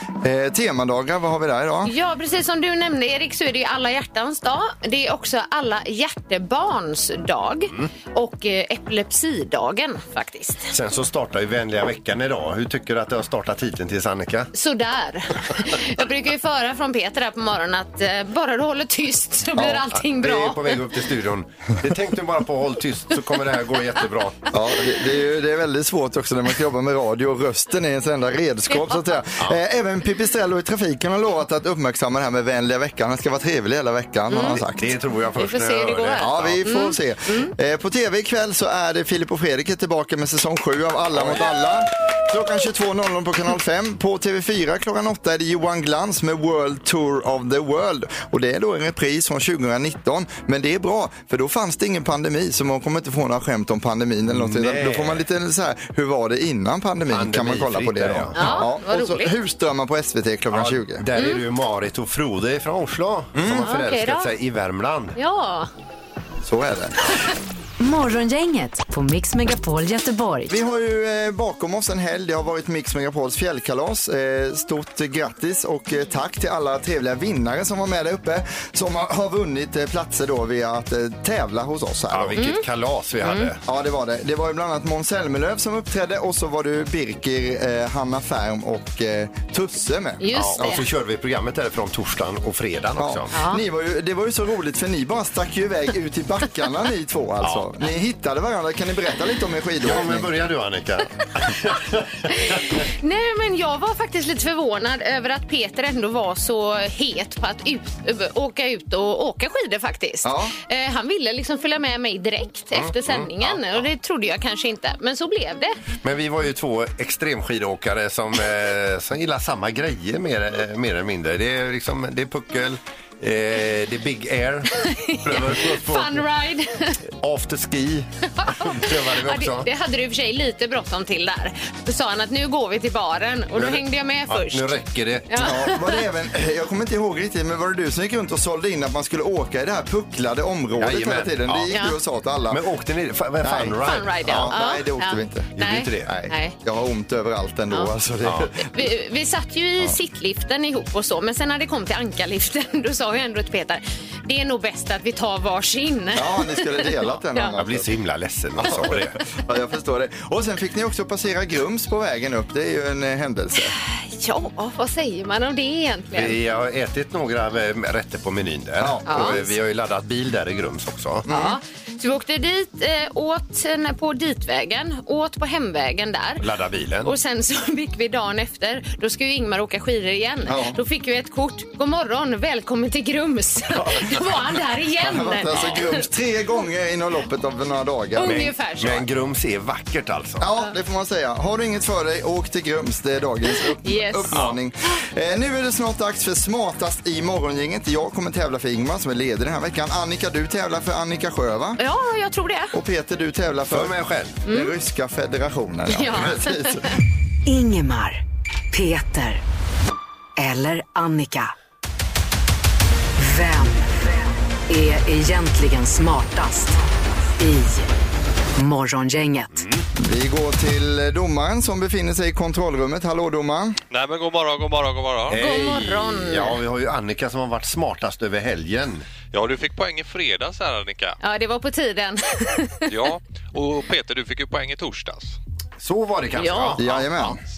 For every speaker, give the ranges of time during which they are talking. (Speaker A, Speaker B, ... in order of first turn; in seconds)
Speaker A: 0.2-1.9, 19.6-19.8, 24.5-34.9, 36.2-61.1, 63.4-63.7, 66.4-66.9, 70.5-82.4, 83.7-90.8, 93.0-100.3, 110.2-110.5, 135.4-142.6, 143.4-145.5, 146.0-148.8, 156.1-157.9, 158.6-163.8, 168.8-169.5, 171.3-171.6, 180.5-180.8, 185.0-188.5, 190.4-201.8, 202.7-203.9, 204.4-206.9, 220.0-223.8, 236.8-237.4
Speaker B: 1.8-10.7, 14.5-20.8, 28.7-29.0, 34.3-34.6, 35.4-37.5, 58.3-59.3, 61.1-61.4, 63.6-64.3, 65.2-65.7, 82.4-82.6, 83.2-83.5, 90.2-90.8, 93.3-93.6, 102.3-115.8, 124.8-127.0, 128.3-134.7, 135.3-136.0, 141.7-142.0, 143.8-146.6, 148.6-157.6, 163.8-166.4, 169.1-169.4, 171.3-176.4, 177.0-186.0, 188.2-189.1, 193.8-194.5, 201.8-202.8, 204.4-204.7, 205.9-207.0, 225.3-226.6, 231.2-232.9, 236.4-236.8
Speaker C: 10.7-14.5, 20.0-24.5, 34.8-36.7, 41.1-41.5, 54.3-55.2, 57.1-58.5, 60.5-65.2, 82.1-83.6, 90.3-93.3, 97.4-97.7, 99.8-102.9, 112.7-113.8, 116.0-126.2, 127.2-129.7, 133.6-135.5, 140.8-141.7, 142.5-144.5, 145.6-146.1, 148.2-148.5, 157.6-159.2, 166.1-171.3, 176.4-177.1, 188.2-190.5, 203.7-204.4, 219.5-219.8, 225.3-229.1, 235.8-237.3
Speaker D: 67.8-70.5, 207.4-208.2, 208.7-209.4, 210.4-211.5, 213.2-216.8, 217.4-217.9, 218.6-219.6
Speaker E: 223.9-225.4, 229.3-231.2, 232.9-235.4